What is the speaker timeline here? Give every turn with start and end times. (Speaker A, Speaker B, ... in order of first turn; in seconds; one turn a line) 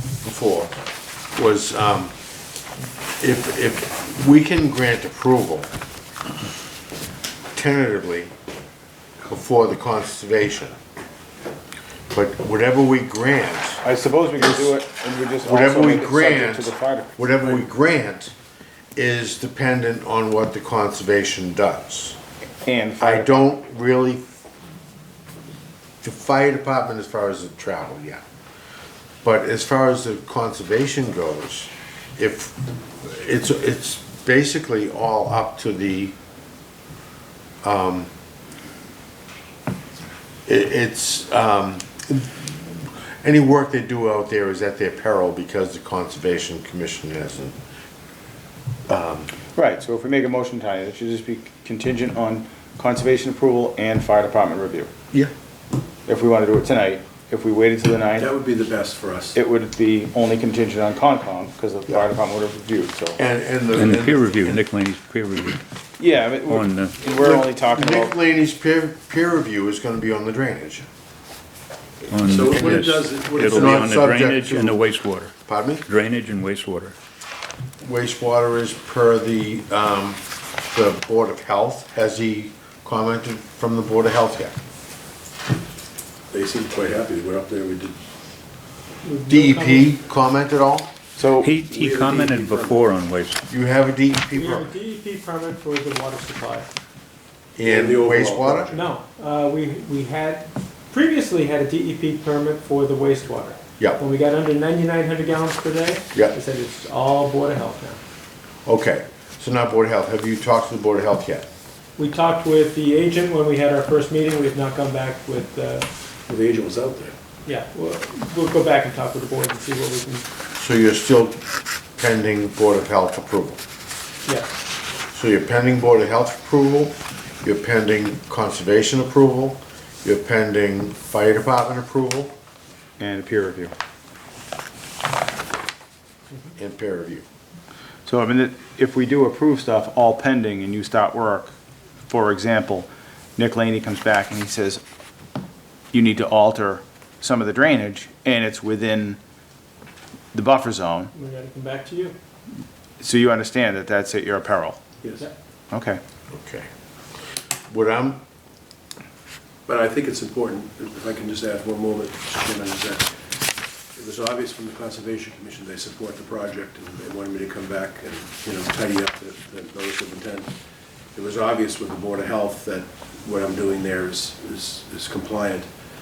Speaker A: 0.2-0.7
Speaker A: 1.4-2.1
Speaker A: 3.2-5.7
Speaker A: 7.5-8.3
Speaker A: 9.2-10.8
Speaker A: 12.1-13.8
Speaker B: 13.8-17.6
Speaker A: 14.4-14.7
Speaker A: 15.4-18.3
Speaker A: 18.9-22.2
Speaker B: 22.6-23.3
Speaker A: 23.0-24.2
Speaker A: 26.0-28.2
Speaker A: 29.2-36.1
Speaker A: 37.6-38.1
Speaker A: 40.5-47.6
Speaker A: 48.9-49.3
Speaker B: 49.5-54.9
Speaker B: 56.1-58.3
Speaker C: 58.2-59.4
Speaker B: 59.3-63.2
Speaker A: 63.2-64.6
Speaker D: 63.7-65.6
Speaker B: 66.0-68.1
Speaker D: 66.5-67.0
Speaker A: 67.0-70.9
Speaker D: 72.1-77.0
Speaker C: 72.3-73.8
Speaker A: 72.3-74.8
Speaker A: 75.5-75.8
Speaker A: 77.8-84.6
Speaker C: 86.3-88.0
Speaker E: 89.0-89.9
Speaker A: 89.3-90.9
Speaker B: 91.2-91.5
Speaker D: 91.4-93.4
Speaker C: 91.7-92.8
Speaker A: 93.5-94.7
Speaker E: 94.3-96.7
Speaker A: 97.6-98.7
Speaker C: 97.7-98.9
Speaker E: 98.7-108.0
Speaker A: 108.7-111.5
Speaker E: 112.0-115.9
Speaker C: 116.3-117.1
Speaker E: 117.5-120.2
Speaker A: 120.6-121.4
Speaker A: 122.0-123.6
Speaker A: 125.1-132.3
Speaker B: 133.0-133.7
Speaker A: 136.6-137.2
Speaker B: 138.1-141.5
Speaker B: 142.1-144.8
Speaker B: 145.9-149.2
Speaker B: 150.3-151.1
Speaker E: 151.1-152.2
Speaker B: 153.0-154.8
Speaker C: 155.0-155.3
Speaker B: 155.7-156.0
Speaker A: 156.3-156.7
Speaker A: 157.7-158.2
Speaker C: 159.7-163.1
Speaker C: 163.9-170.5
Speaker C: 171.2-175.7